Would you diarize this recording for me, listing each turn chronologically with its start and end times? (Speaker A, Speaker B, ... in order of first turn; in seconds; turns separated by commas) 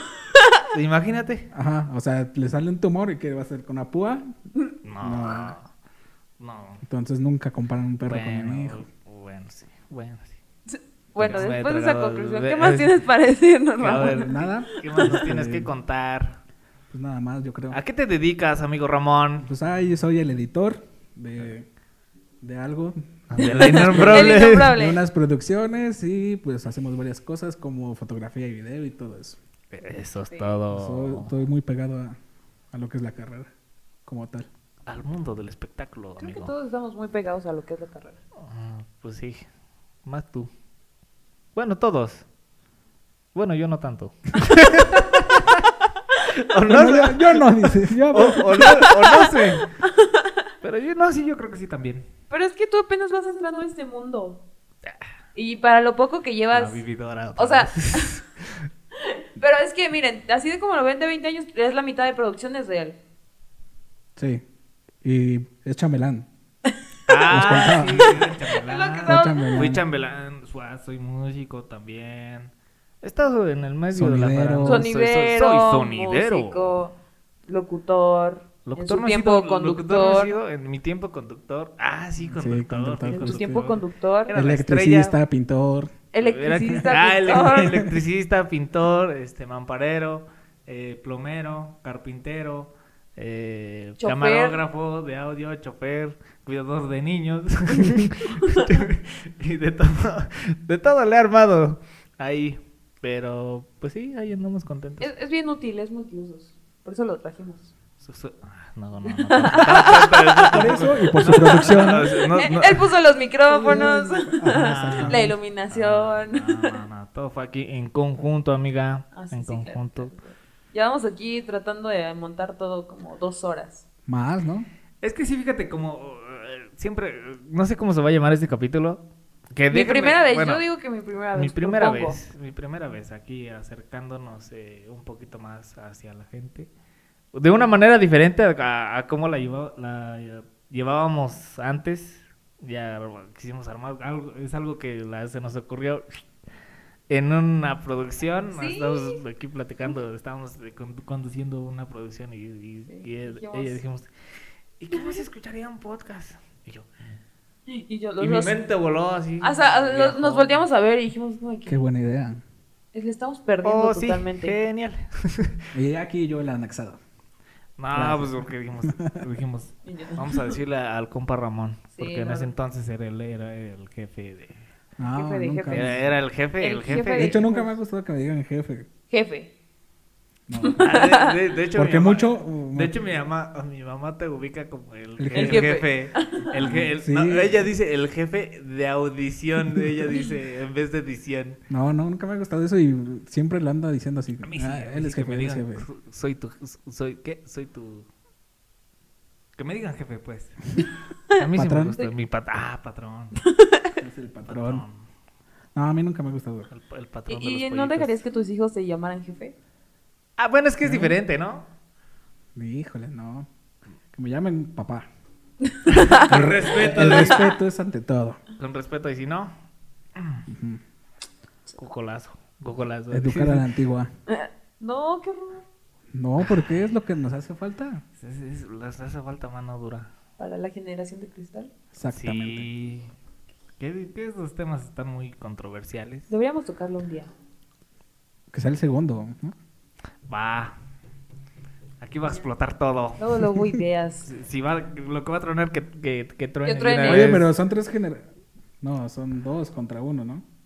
Speaker A: 0.3-0.6, Speaker B: 0.7-1.5, Speaker C: 1.5-4.3, Speaker B: 4.8-5.7, Speaker C: 5.0-5.5, Speaker B: 6.4-6.8, Speaker C: 6.8-8.8, Speaker B: 8.1-10.4, Speaker A: 10.7-15.2, Speaker B: 11.2-12.9, Speaker B: 13.8-16.4, Speaker C: 13.8-15.7, Speaker C: 16.9-17.8, Speaker B: 17.7-19.5, Speaker C: 19.5-21.7, Speaker C: 22.4-29.4, Speaker B: 23.3-24.8, Speaker A: 23.4-25.0, Speaker B: 29.7-31.3, Speaker C: 30.7-32.1, Speaker C: 32.7-33.5, Speaker C: 34.0-34.5, Speaker B: 34.9-36.5, Speaker A: 36.2-38.2, Speaker B: 38.4-39.5, Speaker B: 40.0-40.5, Speaker B: 41.5-42.2, Speaker B: 43.3-45.6, Speaker B: 46.2-49.7, Speaker C: 46.7-48.7, Speaker A: 48.5-50.5, Speaker B: 50.6-52.1, Speaker A: 52.3-54.4, Speaker A: 55.3-56.8, Speaker B: 56.5-58.2, Speaker A: 57.4-58.2, Speaker A: 59.0-63.0, Speaker C: 64.2-64.4, Speaker C: 65.0-66.3, Speaker B: 67.1-76.7, Speaker A: 67.1-69.7, Speaker C: 67.3-68.2, Speaker C: 69.1-69.8, Speaker C: 73.9-74.8, Speaker A: 74.6-77.0, Speaker A: 77.5-80.4, Speaker B: 78.7-85.2, Speaker C: 82.2-83.8, Speaker A: 83.1-84.3, Speaker C: 84.3-85.9, Speaker A: 86.1-87.9, Speaker B: 86.2-105.1, Speaker C: 87.3-87.9, Speaker A: 94.0-94.6, Speaker A: 98.3-98.8, Speaker A: 105.0-107.7, Speaker B: 108.0-112.9, Speaker A: 109.0-116.8, Speaker C: 110.5-112.1, Speaker C: 113.5-115.3, Speaker B: 114.5-120.1, Speaker A: 119.1-123.8, Speaker C: 124.1-124.7, Speaker B: 125.0-129.0, Speaker B: 129.5-130.6, Speaker A: 129.7-132.2, Speaker B: 131.3-136.7, Speaker B: 137.3-146.2, Speaker B: 147.1-154.1, Speaker A: 148.5-149.2, Speaker A: 152.9-153.8, Speaker B: 154.8-157.1, Speaker A: 154.9-155.2, Speaker A: 157.7-158.6, Speaker B: 158.2-160.6, Speaker A: 159.4-161.8, Speaker C: 161.7-162.4, Speaker A: 162.9-164.6, Speaker B: 163.6-165.6, Speaker C: 165.7-167.0, Speaker B: 167.8-174.6, Speaker C: 167.9-169.2, Speaker A: 169.8-170.5, Speaker A: 171.9-172.5, Speaker C: 175.0-176.1, Speaker A: 175.1-175.9, Speaker B: 175.7-177.4, Speaker A: 176.6-177.7, Speaker C: 176.9-178.9, Speaker A: 179.1-179.5, Speaker C: 180.5-180.8, Speaker A: 180.6-181.3, Speaker B: 180.8-191.6, Speaker C: 181.7-182.9, Speaker C: 185.2-185.7, Speaker A: 185.3-186.5, Speaker C: 186.5-187.6, Speaker C: 191.7-195.9, Speaker B: 194.4-198.1, Speaker B: 199.6-203.4, Speaker A: 200.8-201.4, Speaker C: 201.5-202.0, Speaker A: 203.4-204.0, Speaker C: 203.9-204.8, Speaker B: 204.5-205.0, Speaker C: 205.7-206.7, Speaker B: 206.7-208.2, Speaker A: 207.3-209.5, Speaker B: 210.4-211.7, Speaker C: 210.8-211.2, Speaker C: 212.5-213.5, Speaker C: 214.1-215.1, Speaker A: 215.6-216.3, Speaker B: 215.9-217.5, Speaker C: 216.2-218.4, Speaker A: 217.1-217.5, Speaker B: 218.6-219.5, Speaker B: 220.2-220.4, Speaker C: 220.5-220.8, Speaker B: 221.8-223.7, Speaker C: 223.1-224.1, Speaker A: 224.3-225.7, Speaker C: 226.1-228.0, Speaker B: 226.4-226.8, Speaker B: 228.2-230.1, Speaker A: 230.4-231.7, Speaker C: 231.9-232.7, Speaker B: 232.1-233.1, Speaker B: 233.8-236.3, Speaker A: 236.3-237.3, Speaker C: 238.5-239.5, Speaker B: 240.3-240.7, Speaker B: 242.0-243.3, Speaker A: 243.2-244.3, Speaker B: 244.2-247.5, Speaker A: 246.6-247.3, Speaker C: 247.0-248.3, Speaker C: 248.8-250.4